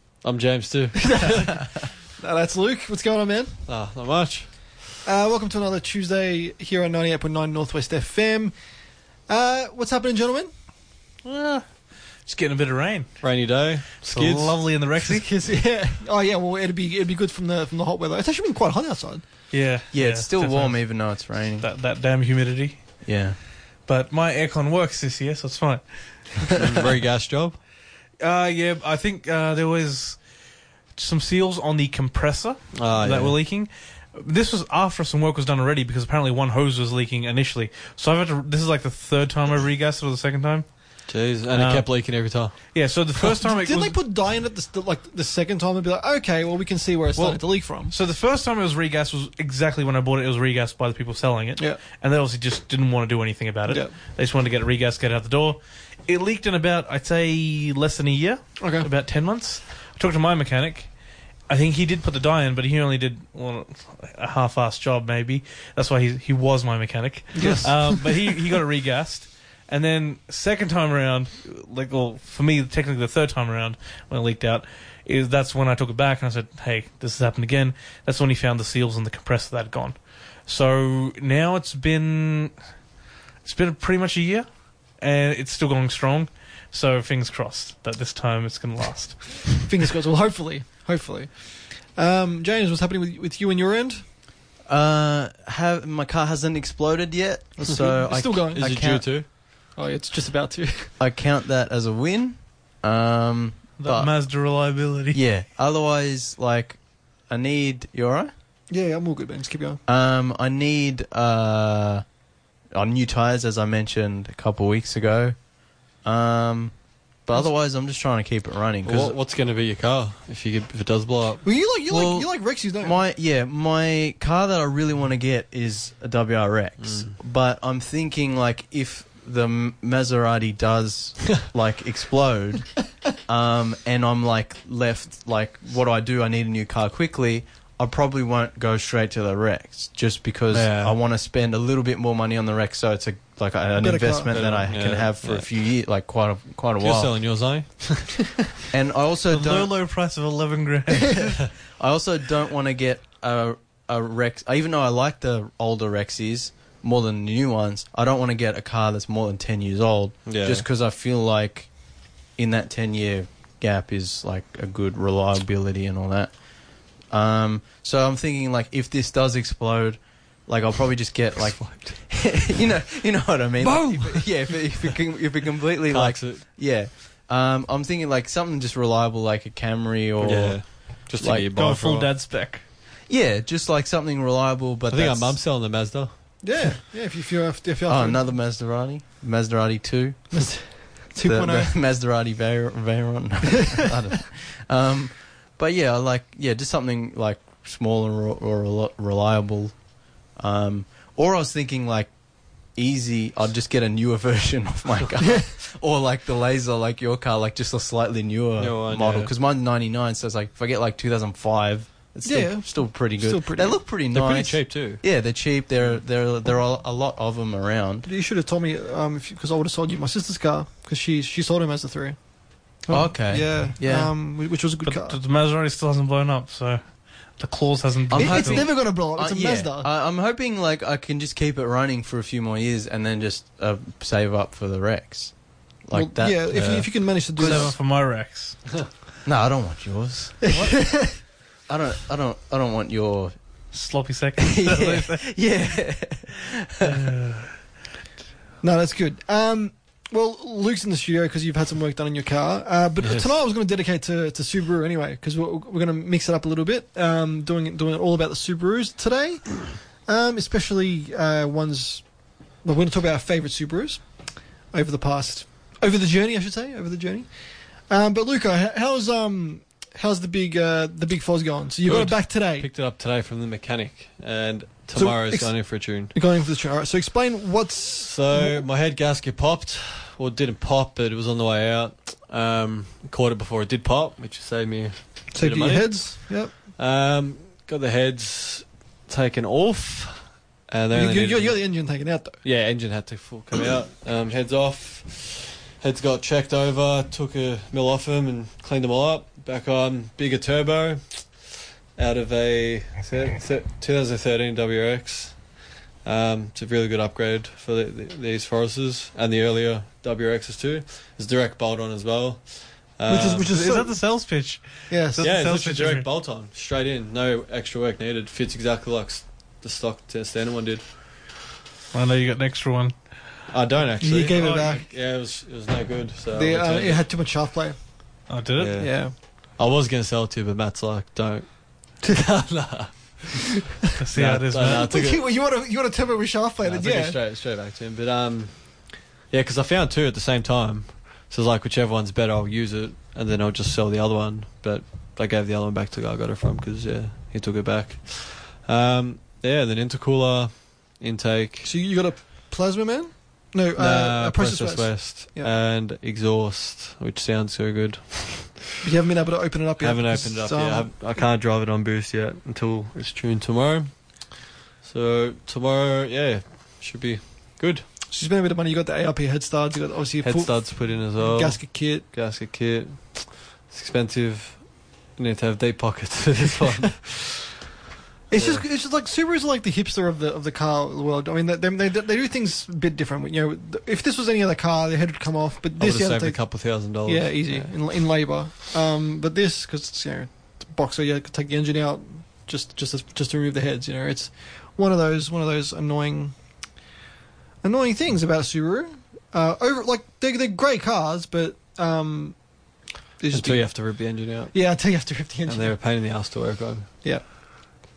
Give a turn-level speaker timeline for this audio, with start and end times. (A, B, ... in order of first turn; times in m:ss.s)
0:00.2-0:01.4 A
0:01.0-0:01.6 B
0:02.2-0:03.6 B
0:03.7-0:04.8 A
0:05.0-0:08.5 B
0:09.3-0:10.5 B
0:11.2-0:11.6 C
0:12.2-0:13.1 C
0:13.2-0:14.6 A
0:14.0-0:15.3 C
0:15.0-0:19.2 B
0:19.5-0:23.0 C
0:19.9-0:21.7 D
0:23.0-0:23.4 D
0:23.8-0:26.4 C
0:26.5-0:27.6 A
0:28.2-0:30.2 C
0:30.9-0:40.6 C
0:32.7-0:33.4 A
0:41.1-0:42.6 A
0:41.5-0:44.0 C
0:43.4-0:47.9 B
0:47.2-1:00.9 C
0:53.7-0:53.9 B
0:58.6-0:58.9 B
1:01.5-1:22.5 C
1:07.3-1:08.2 B
1:23.4-1:29.5 C
1:29.6-1:34.0 B
1:34.6-1:39.1 D
1:37.6-1:40.9 B
1:38.2-1:39.3 A
1:41.0-1:44.2 D
1:43.8-1:45.2 C
1:45.1-1:48.3 D
1:48.7-1:49.8 B
1:49.9-1:52.0 D
1:52.7-1:55.4 D
1:56.0-1:59.1 D
1:58.8-2:01.4 A
2:01.4-2:03.0 B
2:01.9-2:27.2 D
2:06.8-2:07.1 A
2:20.5-2:21.0 A
2:23.8-2:24.4 B
2:24.3-2:25.5 A
2:26.8-2:28.3 A
2:28.7-2:29.7 D
2:29.3-2:31.4 C
2:31.8-2:41.7 D
2:40.2-2:40.6 A
2:42.4-2:46.3 D
2:47.0-3:01.5 D
2:51.4-2:52.0 A
2:53.8-2:54.2 B
2:55.9-2:56.4 A
3:00.2-3:02.1 A
3:01.5-3:02.6 C
3:03.1-3:05.4 D
3:04.9-3:06.1 A
3:06.4-3:08.3 B
3:07.8-3:19.8 D
3:10.3-3:11.7 B
3:20.4-3:22.1 D
3:22.7-3:38.1 D
3:28.6-3:29.3 A
3:32.2-3:33.8 B
3:34.1-3:35.0 A
3:38.0-3:45.2 B
3:42.9-3:44.1 D
3:44.8-3:48.7 C
3:48.1-3:57.7 D
3:48.1-3:49.9 B
3:55.9-3:57.7 B
3:57.4-3:58.6 C
3:59.2-4:00.9 D
4:00.4-4:01.2 B
4:01.7-4:03.3 D
4:03.7-4:05.3 C
4:04.4-4:07.1 D
4:06.8-4:07.5 C
4:08.6-4:22.1 B
4:13.0-4:13.3 A
4:22.6-4:32.7 B
4:31.8-4:36.1 A
4:34.9-4:38.6 B
4:38.0-4:51.7 A
4:45.3-4:46.5 B
4:50.9-4:52.4 B
4:52.4-5:13.5 A
5:13.1-5:14.0 B
5:13.5-5:16.1 C
5:14.9-5:15.3 B
5:15.2-5:20.8 A
5:21.9-5:22.9 C
5:23.5-5:27.0 A
5:24.0-5:24.8 B
5:24.4-5:24.7 C
5:26.3-5:28.2 B
5:28.3-5:28.8 C
5:28.6-5:33.5 A
5:28.8-5:29.1 B
5:34.0-5:34.9 C
5:34.1-5:35.2 A
5:34.6-5:37.2 B
5:36.6-5:51.7 A
5:51.6-5:55.5 B
5:53.8-5:58.6 A
5:58.8-6:01.2 B
5:59.8-6:07.8 A
6:08.1-6:12.1 B
6:10.2-6:17.4 A
6:18.3-6:36.4 B
6:18.3-6:18.6 A
6:25.8-6:27.7 A
6:37.6-6:42.4 B
6:43.2-6:44.0 B
6:43.3-6:44.5 A
6:44.5-6:45.8 B
6:45.5-6:46.9 A